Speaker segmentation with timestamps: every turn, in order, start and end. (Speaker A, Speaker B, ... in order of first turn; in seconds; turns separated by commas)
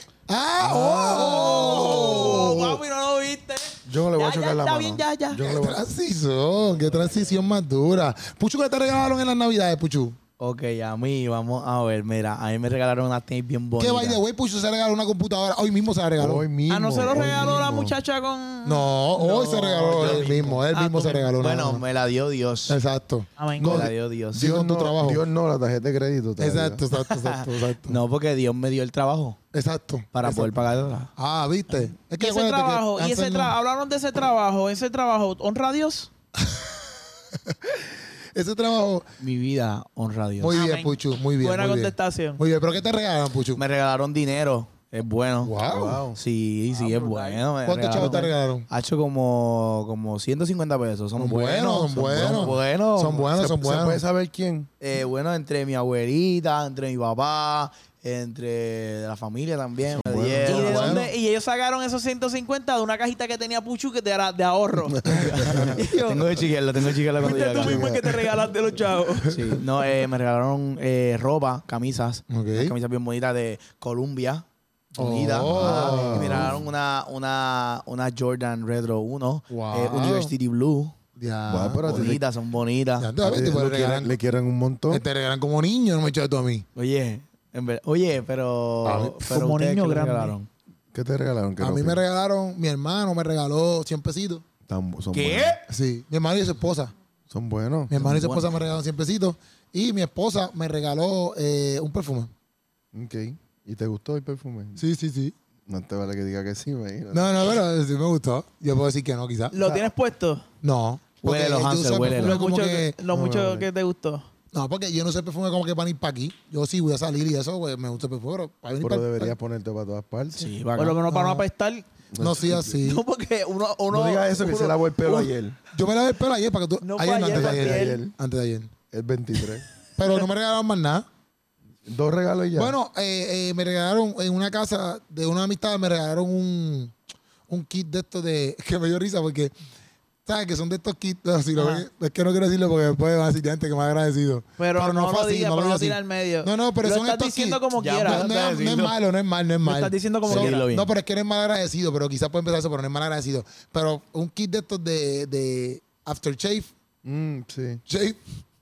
Speaker A: 0.3-2.8, Speaker B: 0.6-2.6, Speaker C: 1.1-5.4, Speaker B: 3.8-5.8, Speaker A: 5.4-10.2, Speaker D: 6.9-7.3, Speaker D: 10.4-14.2, Speaker A: 13.8-16.5, Speaker B: 16.2-18.0, Speaker C: 16.7-20.2, Speaker A: 17.1-17.5, Speaker A: 18.6-21.8, Speaker D: 19.2-20.6, Speaker C: 20.7-21.3, Speaker D: 21.4-22.8, Speaker A: 22.7-23.3, Speaker C: 23.4-23.8, Speaker B: 23.6-26.8, Speaker D: 23.6-24.5, Speaker A: 24.3-25.2, Speaker A: 26.4-28.0, Speaker D: 27.0-29.4, Speaker A: 29.5-30.5, Speaker D: 30.1-31.1, Speaker A: 31.2-33.6, Speaker C: 32.1-36.1, Speaker A: 36.4-39.1, Speaker D: 39.2-40.6, Speaker A: 40.4-43.6, Speaker C: 40.5-42.4, Speaker D: 43.5-45.5, Speaker A: 45.4-46.0, Speaker B: 45.6-46.2, Speaker D: 46.1-53.2, Speaker C: 46.7-48.2, Speaker A: 47.6-48.7, Speaker A: 51.2-54.0, Speaker B: 53.3-54.7, Speaker D: 54.8-61.0, Speaker B: 60.0-61.0, Speaker C: 60.5-65.0, Speaker A: 60.5-61.1, Speaker B: 64.9-65.7, Speaker D: 65.0-68.0, Speaker A: 65.1-65.8, Speaker C: 65.8-66.2, Speaker C: 67.2-69.3, Speaker B: 67.5-68.1, Speaker D: 69.3-80.9, Speaker A: 72.3-72.7, Speaker A: 75.0-76.5, Speaker B: 75.4-76.6, Speaker A: 79.5-80.3, Speaker A: 81.2-82.1, Speaker B: 81.5-82.2, Speaker D: 81.8-83.1, Speaker A: 83.0-84.1, Speaker B: 83.2-85.0, Speaker A: 84.9-86.7, Speaker D: 86.8-90.5, Speaker A: 88.8-89.2, Speaker C: 89.2-90.3, Speaker B: 90.9-92.0, Speaker A: 91.6-94.4, Speaker B: 94.7-95.6, Speaker D: 95.1-95.6, Speaker A: 95.7-96.9, Speaker B: 97.3-98.0, Speaker A: 97.9-102.3, Speaker D: 98.0-98.5, Speaker B: 102.9-104.8, Speaker A: 104.8-105.3, Speaker B: 105.7-107.4, Speaker A: 107.1-109.7, Speaker C: 109.5-110.4, Speaker A: 110.6-113.0, Speaker D: 111.2-112.4, Speaker C: 112.2-114.3, Speaker B: 113.1-113.7, Speaker A: 114.5-119.3, Speaker B: 118.8-120.5, Speaker D: 120.4-121.0, Speaker C: 120.7-121.8, Speaker A: 121.1-121.4, Speaker B: 122.1-122.8, Speaker A: 122.2-123.0, Speaker C: 122.8-125.3, Speaker B: 123.9-125.6, Speaker A: 125.7-128.7, Speaker C: 126.8-128.0, Speaker B: 127.3-128.1, Speaker B: 128.9-129.7, Speaker A: 130.0-131.1, Speaker B: 131.8-132.7, Speaker A: 132.5-136.9, Speaker A: 137.5-139.5, Speaker A: 140.2-156.7, Speaker C: 141.6-141.8, Speaker C: 144.6-148.2, Speaker D: 147.8-148.9, Speaker C: 149.6-150.6, Speaker D: 150.2-150.9, Speaker B: 157.0-157.8, Speaker A: 157.9-158.2